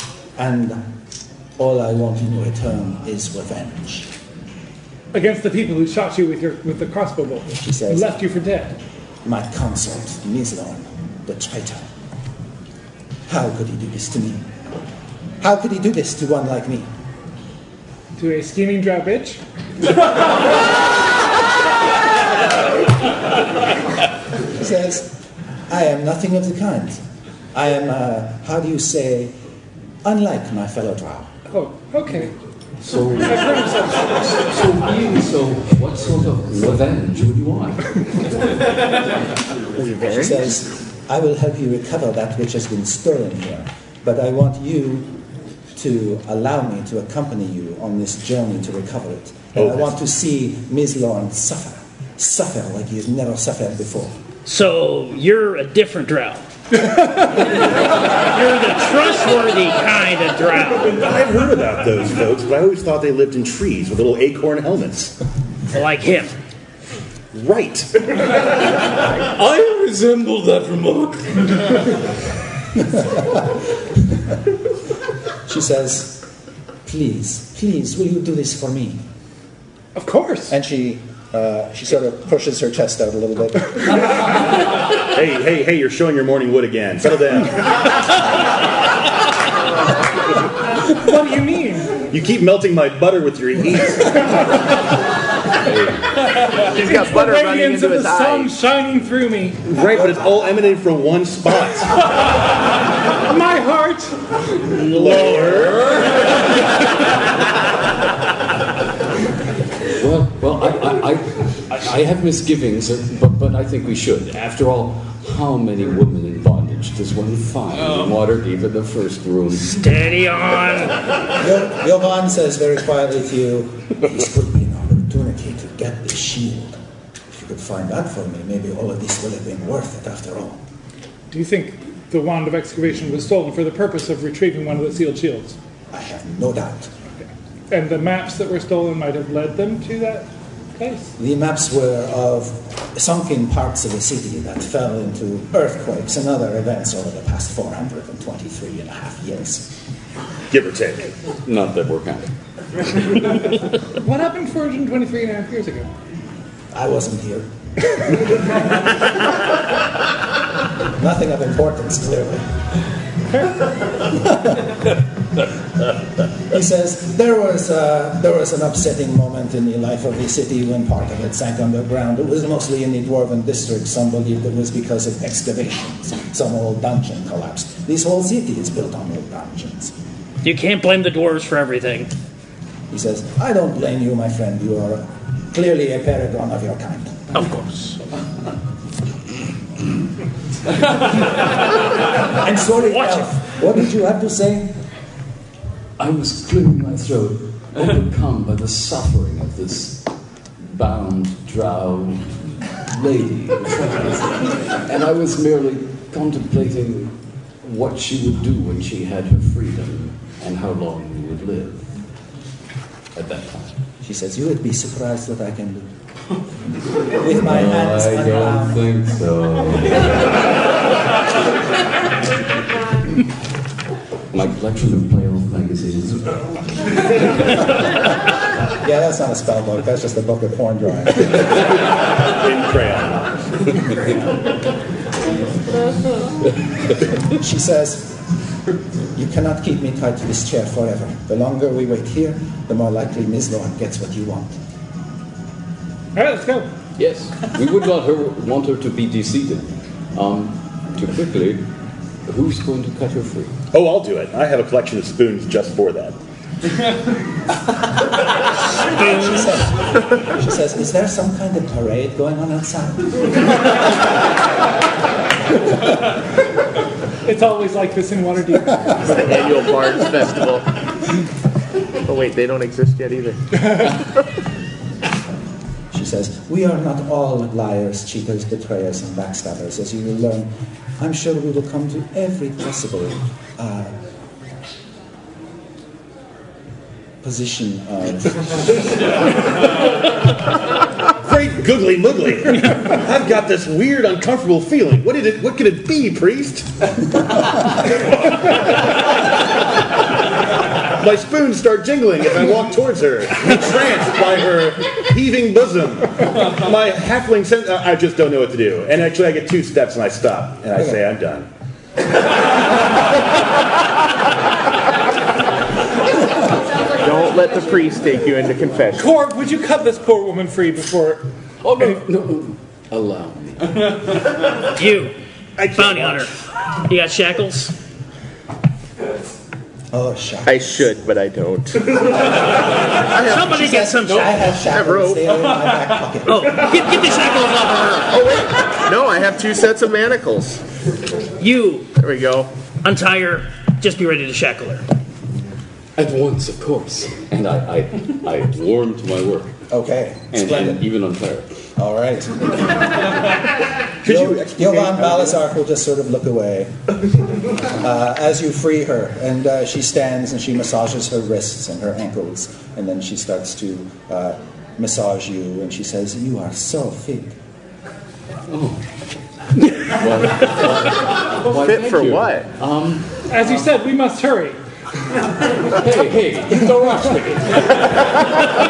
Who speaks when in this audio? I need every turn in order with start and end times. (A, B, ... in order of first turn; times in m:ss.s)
0:00.4-0:00.9 A
0:01.6-0:04.1 A
0:05.1-0:08.7 B
0:07.6-0:08.1 A
0:09.2-0:11.9 A
0:13.3-0:14.4 A
0:15.4-0:16.9 A
0:18.2-0:19.4 B
0:24.5-0:25.2 A
0:25.7-0:27.0 A
0:27.5-0:29.3 A
0:30.0-0:31.3 A
0:31.5-0:32.3 B
0:32.8-0:38.1 C
0:33.2-0:34.0 B
0:39.7-0:40.4 D
0:40.1-0:45.1 A
0:45.7-0:54.1 A
0:49.5-0:49.9 E
0:54.4-0:56.4 F
0:58.2-1:01.0 F
1:01.0-1:05.1 E
1:05.7-1:06.3 F
1:07.3-1:07.9 E
1:09.2-1:11.8 C
1:12.9-1:13.4 A
1:15.4-1:16.2 A
1:16.8-1:19.0 A
1:20.0-1:20.5 B
1:20.5-1:24.0 A
1:25.1-1:27.7 E
1:30.9-1:32.0 B
1:32.1-1:34.7 E
1:35.6-1:36.0 C
1:36.6-1:38.6 D
1:36.7-1:39.6 B
1:39.6-1:42.0 E
1:43.2-1:44.1 B
1:44.8-1:45.8 E
1:45.1-1:45.4 F
1:45.5-1:46.1 C
1:50.0-1:59.8 C
1:59.7-2:01.0 F
2:01.4-2:06.8 A
2:07.3-2:10.6 A
2:11.3-2:15.6 B
2:15.9-2:16.9 A
2:17.7-2:21.1 B
2:21.2-2:29.7 A
2:30.5-2:31.1 E
2:31.4-2:32.3 C
2:34.0-2:35.9 B
2:36.7-2:37.5 A
2:41.0-2:42.5 A
2:44.1-2:44.6 A
2:46.5-2:59.9 A
3:00.4-3:02.1 F
3:02.9-3:07.2 A
3:07.3-3:08.0 F
3:12.3-3:14.7 A
3:12.9-3:13.2 F
3:16.0-3:20.1 C
3:20.6-3:22.4 C
3:22.9-3:31.9 C
3:33.1-3:33.7 C
3:34.0-3:35.9 A
3:37.2-3:38.8 A
3:37.3-3:40.3 C
3:44.3-3:46.6 C
3:48.8-3:51.6 A
3:52.3-3:53.6 E
3:57.3-3:58.2 A
3:59.1-4:04.6 A
4:06.1-4:06.7 B
4:07.0-4:11.6 C
4:12.2-4:13.5 C
4:13.7-4:16.1 E
4:18.9-4:23.3 A
4:27.2-4:29.4 B
4:29.0-4:30.7 D
4:32.0-4:33.7 D
4:35.9-4:43.9 A
4:47.2-4:48.8 A
4:51.2-4:56.7 E
5:00.9-5:11.5 E
5:16.9-5:19.2 D
5:19.0-5:21.2 B
5:21.6-5:24.0 C
5:24.8-5:26.3 F
5:26.8-5:27.7 F
5:29.9-5:30.9 A
5:30.4-5:32.2 D
5:33.0-5:33.5 D
5:33.2-5:34.3 F
5:33.3-5:36.6 A
5:34.5-5:35.4 D
5:36.3-5:38.1 F
5:38.0-5:40.6 D
5:41.4-5:41.9 F
5:42.0-5:42.5 D
5:42.8-5:44.8 F
5:46.0-5:49.5 C
5:49.7-5:50.8 A
5:50.3-5:51.5 C
5:51.8-5:52.7 A
5:54.0-5:55.3 E
5:54.0-5:56.7 A
5:57.7-6:07.3 A
6:08.5-6:08.8 C
6:09.6-6:13.6 C
6:11.5-6:12.5 D
6:13.3-6:14.6 B
6:15.7-6:18.2 C